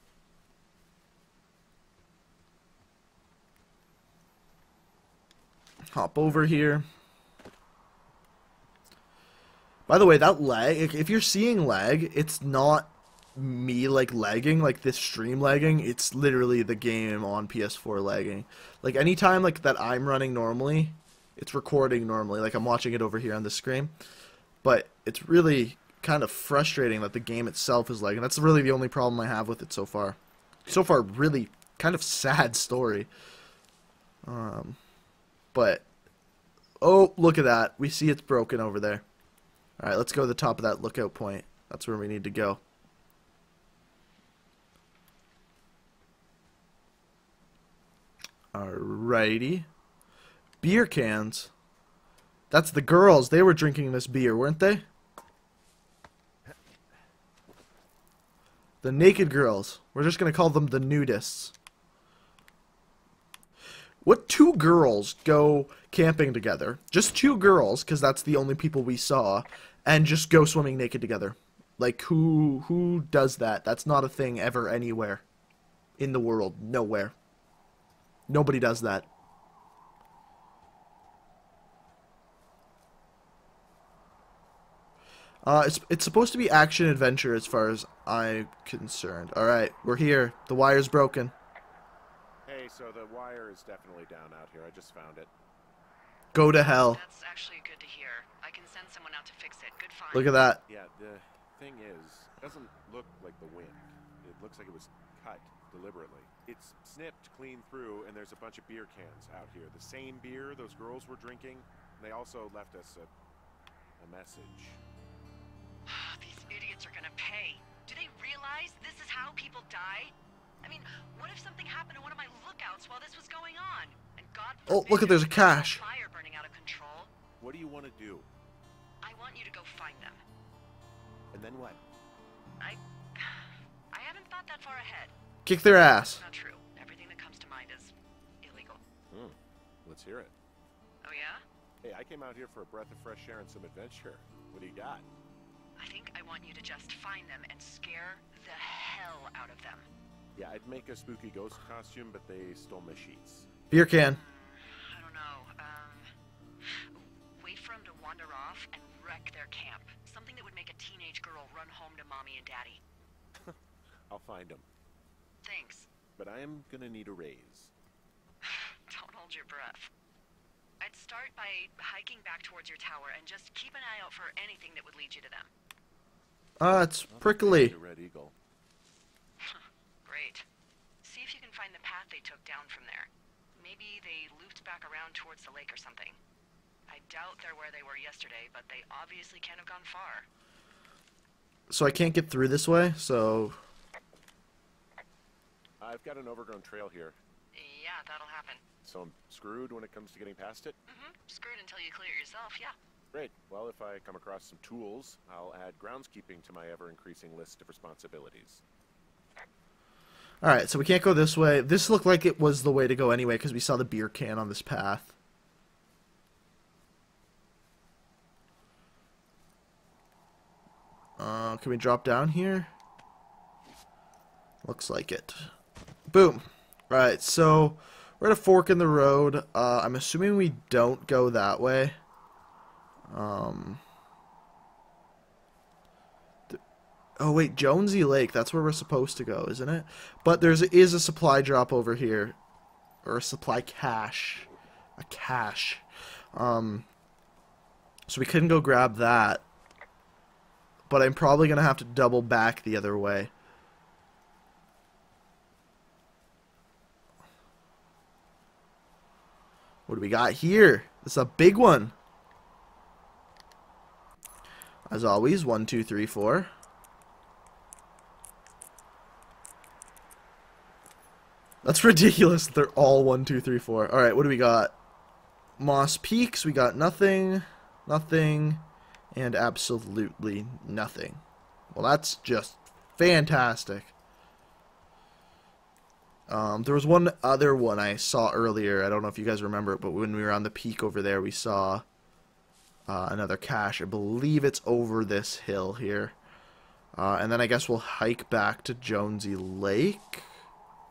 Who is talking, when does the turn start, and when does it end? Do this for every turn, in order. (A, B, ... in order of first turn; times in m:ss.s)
0:05.9-0:06.9 A
0:09.9-0:23.9 A
0:24.6-0:33.1 A
0:34.2-0:34.8 A
0:35.5-0:35.9 A
0:36.8-0:39.0 A
0:39.8-0:42.6 A
0:48.5-0:49.7 A
0:50.6-0:51.5 A
0:52.5-0:54.8 A
0:58.8-1:01.5 A
1:04.0-1:15.2 A
1:16.0-1:17.1 A
1:18.3-1:19.1 A
1:25.4-1:31.3 A
1:32.5-1:35.3 B
1:36.3-1:37.0 A
1:36.6-1:40.4 C
1:40.1-1:40.6 A
1:40.7-1:53.1 B
1:54.0-1:54.8 B
1:55.9-2:07.1 C
2:04.7-2:05.8 A
2:07.4-2:08.3 B
2:09.0-2:10.2 C
2:11.3-2:11.8 B
2:12.6-2:15.1 C
2:15.5-2:16.2 A
2:16.2-2:18.8 C
2:19.1-2:20.3 B
2:21.0-2:21.4 C
2:21.8-2:25.1 B
2:25.8-2:29.9 C
2:30.4-2:33.5 B
2:33.7-2:34.2 A
2:33.9-2:36.1 C
2:36.6-2:42.8 C
2:44.1-2:44.7 B
2:45.4-2:45.9 C
2:46.2-2:47.7 B
2:48.4-2:49.9 C
2:50.8-2:55.5 C
2:56.6-2:57.7 A
2:56.6-2:58.4 B
2:59.4-3:00.5 C
3:01.0-3:06.2 C
3:06.9-3:10.3 C
3:11.7-3:13.6 A
3:15.8-3:17.2 B
3:17.5-3:18.6 C
3:18.8-3:20.8 B
3:20.9-3:22.8 C
3:23.1-3:28.6 B
3:30.4-3:35.1 A
3:41.2-3:42.7 A
3:44.6-3:45.5 A
3:46.1-3:52.0 A
3:53.1-3:53.8 A
3:57.2-4:02.4 A
4:03.0-4:06.9 A
4:08.1-4:09.4 A
4:10.9-4:13.3 A
4:19.9-4:22.0 A
4:24.9-4:26.5 A
4:31.6-4:34.8 A
4:35.6-4:41.2 A
4:41.7-4:43.9 A
4:46.3-4:51.8 A
4:52.9-4:56.2 A
4:56.9-5:00.3 A